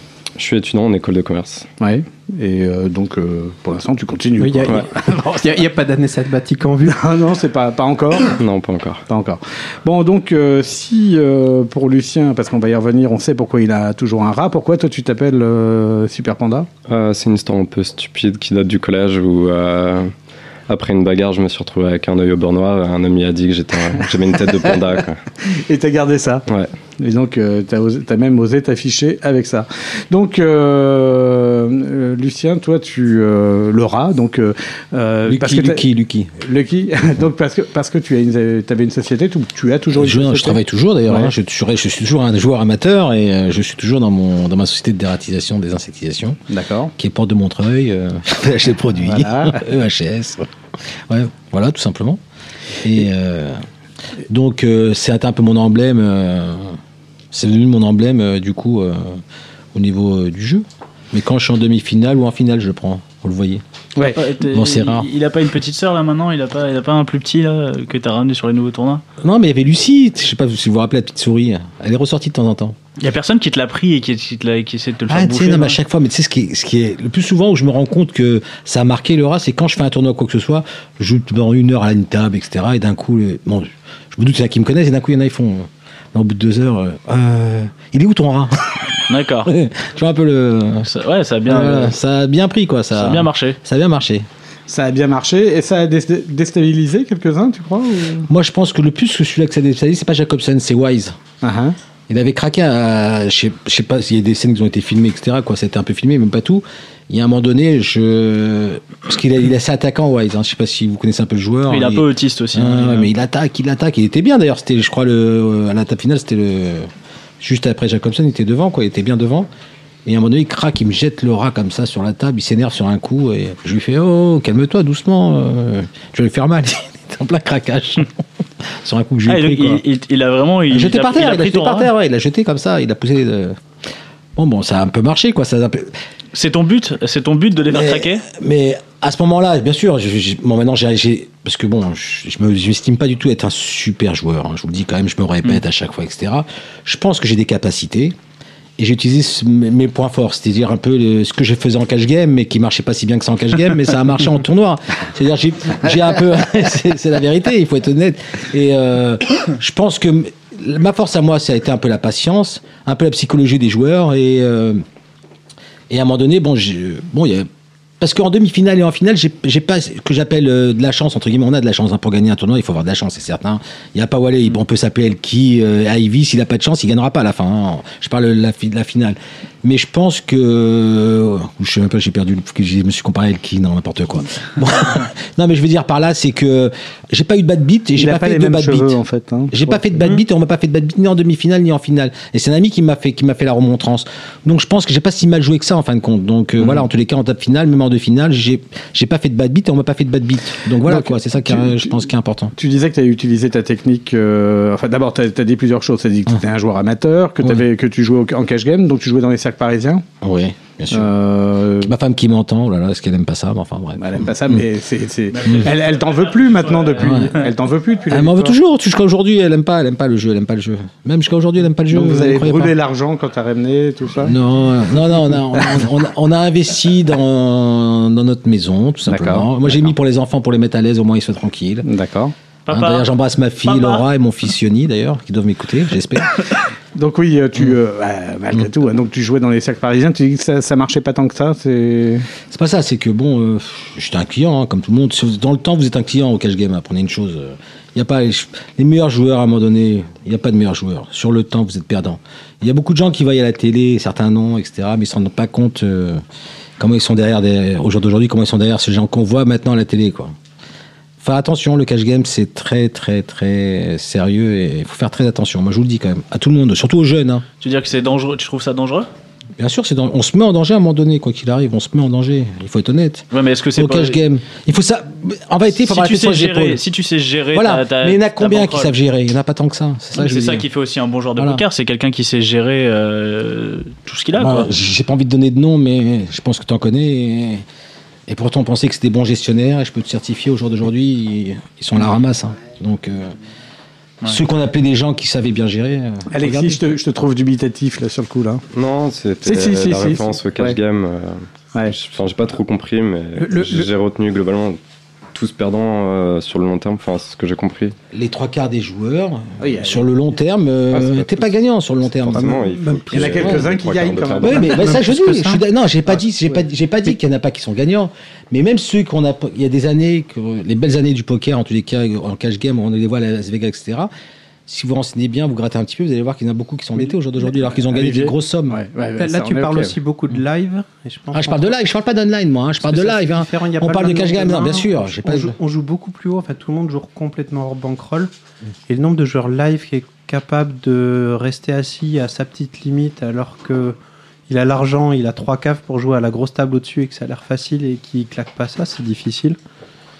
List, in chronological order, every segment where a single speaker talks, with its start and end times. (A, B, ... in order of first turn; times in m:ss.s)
0:00.4-0:01.7 A
0:01.8-0:05.6 B
0:04.4-0:07.0 C
0:06.9-0:08.3 B
0:08.3-0:09.0 A
0:09.1-0:16.7 B
0:16.9-0:20.1 A
0:20.7-0:25.2 A
0:24.5-0:24.8 B
0:25.5-0:26.4 B
0:27.0-0:35.8 B
0:35.3-0:36.3 D
0:36.4-0:41.3 B
0:39.9-0:46.4 D
0:46.5-0:46.9 B
0:47.0-0:50.5 D
0:49.0-0:49.6 B
0:51.1-0:52.2 D
0:52.8-0:53.6 D
0:54.3-0:56.8 D
0:57.3-0:59.2 D
0:59.7-1:03.6 D
1:04.0-1:04.2 B
1:04.0-1:09.0 E
1:04.4-1:05.1 D
1:09.2-1:12.8 D
1:13.0-1:15.8 E
1:15.1-1:28.8 D
1:29.1-1:29.5 E
1:29.4-1:30.9 D
1:30.8-1:31.9 E
1:31.4-1:34.3 D
1:32.9-1:33.6 E
1:34.7-1:38.3 B
1:38.3-1:41.2 D
1:41.4-1:41.8 B
1:42.1-1:56.9 D
1:51.7-1:53.1 E
1:57.4-1:59.5 D
2:00.0-2:08.1 D
2:08.7-2:09.8 D
2:09.2-2:11.9 E
2:10.7-2:13.6 D
2:14.4-2:15.9 D
2:16.3-2:18.2 E
2:17.7-2:28.1 D
2:28.8-2:44.8 D
2:45.9-2:47.5 D
2:48.0-3:09.0 D
3:08.0-3:09.9 B
3:09.5-3:22.5 D
3:20.8-3:22.0 B
3:22.6-3:30.0 B
3:30.2-3:31.1 D
3:30.9-3:31.9 B
3:31.8-3:34.6 D
3:34.0-3:38.6 B
3:35.3-3:37.4 E
3:37.0-3:37.4 D
3:38.1-3:42.7 D
3:41.9-3:44.3 B
3:44.2-3:51.9 D
3:45.5-3:45.8 B
3:49.1-3:49.5 B
3:51.8-3:52.3 B
3:52.7-3:53.1 E
3:52.7-3:56.5 D
3:53.6-3:54.0 E
3:56.9-4:02.2 B
4:02.5-4:16.2 D
4:16.8-4:20.3 D
4:21.2-4:27.4 D
4:27.6-4:29.1 E
4:29.6-4:36.8 D
4:33.3-4:34.2 E
4:35.7-4:38.9 E
4:37.5-4:40.7 D
4:40.1-4:44.7 E
4:41.4-4:41.6 D
4:44.3-4:47.6 D
4:48.3-4:53.4 D
4:54.2-4:56.8 D
4:56.3-4:58.6 B
4:58.7-5:04.8 A
4:59.4-5:00.8 B
5:03.4-5:03.8 C
5:05.3-5:07.9 A
5:08.1-5:13.7 D
5:09.6-5:10.1 B
5:10.9-5:11.5 A
5:12.2-5:14.8 A
5:13.1-5:14.9 B
5:14.4-5:24.1 D
5:14.6-5:15.6 C
5:24.7-5:28.8 D
5:27.8-5:29.9 B
5:29.2-5:31.7 C
5:31.3-5:35.6 D
5:32.8-5:38.3 C
5:38.9-5:44.0 C
5:44.5-5:49.6 C